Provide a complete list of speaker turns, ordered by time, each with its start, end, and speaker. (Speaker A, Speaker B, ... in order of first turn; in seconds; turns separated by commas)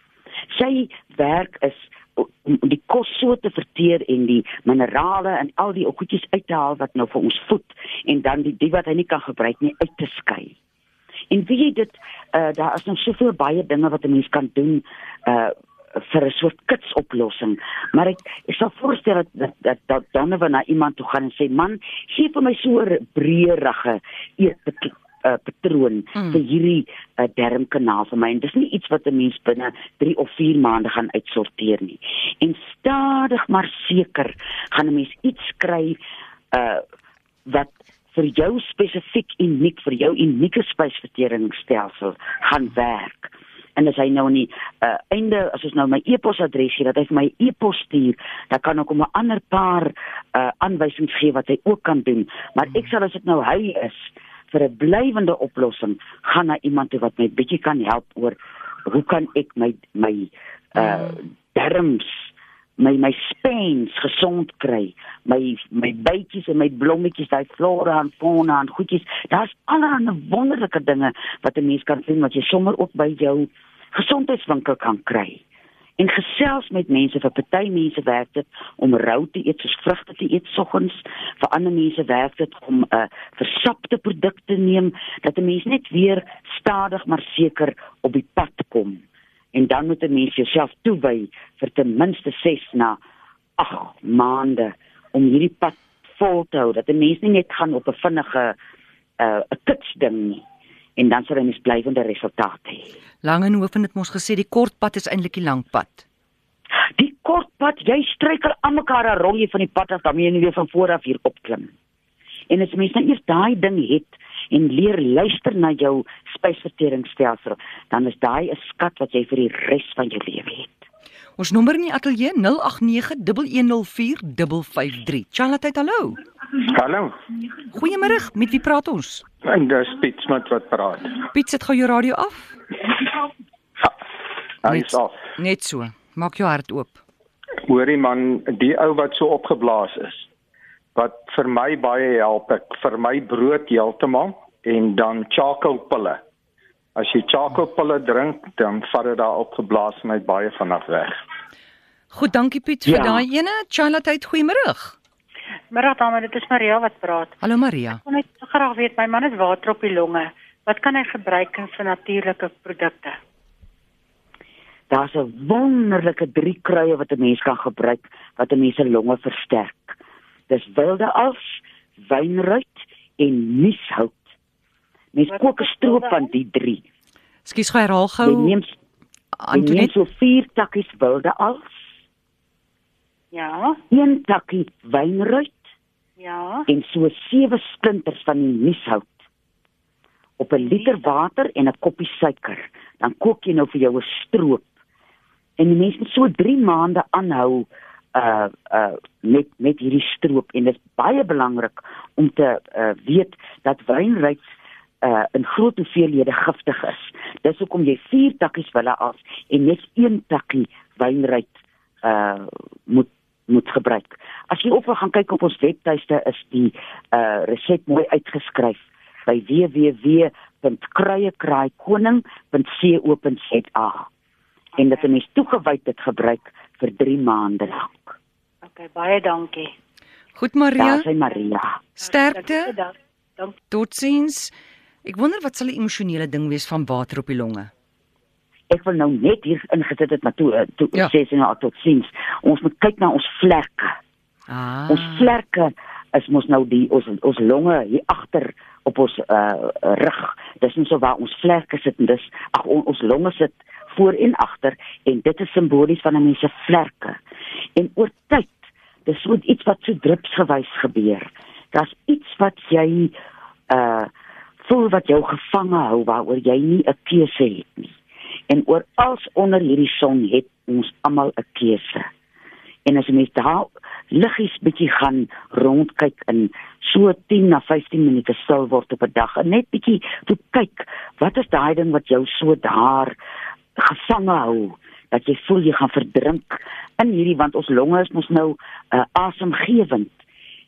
Speaker A: 0.5-10.6, Speaker A: 11.3-36.0, Speaker A: 36.5-36.8, Speaker A: 37.5-75.4, Speaker A: 76.0-89.0, Speaker A: 89.5-93.0, Speaker A: 93.6-98.5, Speaker A: 99.2-100.4, Speaker A: 101.0-102.9, Speaker B: 103.2-106.0, Speaker A: 107.0-111.7, Speaker A: 112.5-120.8, Speaker B: 121.4-126.2, Speaker C: 126.6-127.1, Speaker B: 127.7-129.2, Speaker C: 129.4-131.2, Speaker B: 131.3-132.5, Speaker C: 134.6-135.2, Speaker B: 134.7-137.0, Speaker C: 137.7-140.3, Speaker C: 140.9-146.2, Speaker C: 147.0-151.2, Speaker B: 152.1-155.0, Speaker A: 152.8-153.2, Speaker D: 155.7-157.3, Speaker B: 157.4-158.0, Speaker D: 158.1-163.2, Speaker A: 164.9-170.0, Speaker A: 170.5-174.2, Speaker A: 175.1-176.8, Speaker D: 175.3-176.2, Speaker B: 177.4-178.6, Speaker A: 178.2-178.7, Speaker B: 179.4-179.9, Speaker A: 179.5-181.8, Speaker D: 183.3-183.8, Speaker A: 183.9-185.6, Speaker D: 186.2-186.7, Speaker A: 186.7-189.1, Speaker A: 190.4-194.7, Speaker D: 190.6-190.9, Speaker A: 195.6-224.1, Speaker A: 224.8-228.2, Speaker D: 228.7-229.7, Speaker B: 230.4-231.1, Speaker A: 230.8-231.8, Speaker B: 232.0-232.8, Speaker D: 232.4-233.6, Speaker B: 233.7-234.5, Speaker B: 235.0-237.7, Speaker A: 238.7-244.0, Speaker B: 244.5-245.3, Speaker A: 244.9-257.2, Speaker A: 257.8-263.1, Speaker A: 263.7-264.1, Speaker A: 264.6-267.9, Speaker A: 268.5-272.1, Speaker A: 272.9-283.2, Speaker A: 283.8-290.1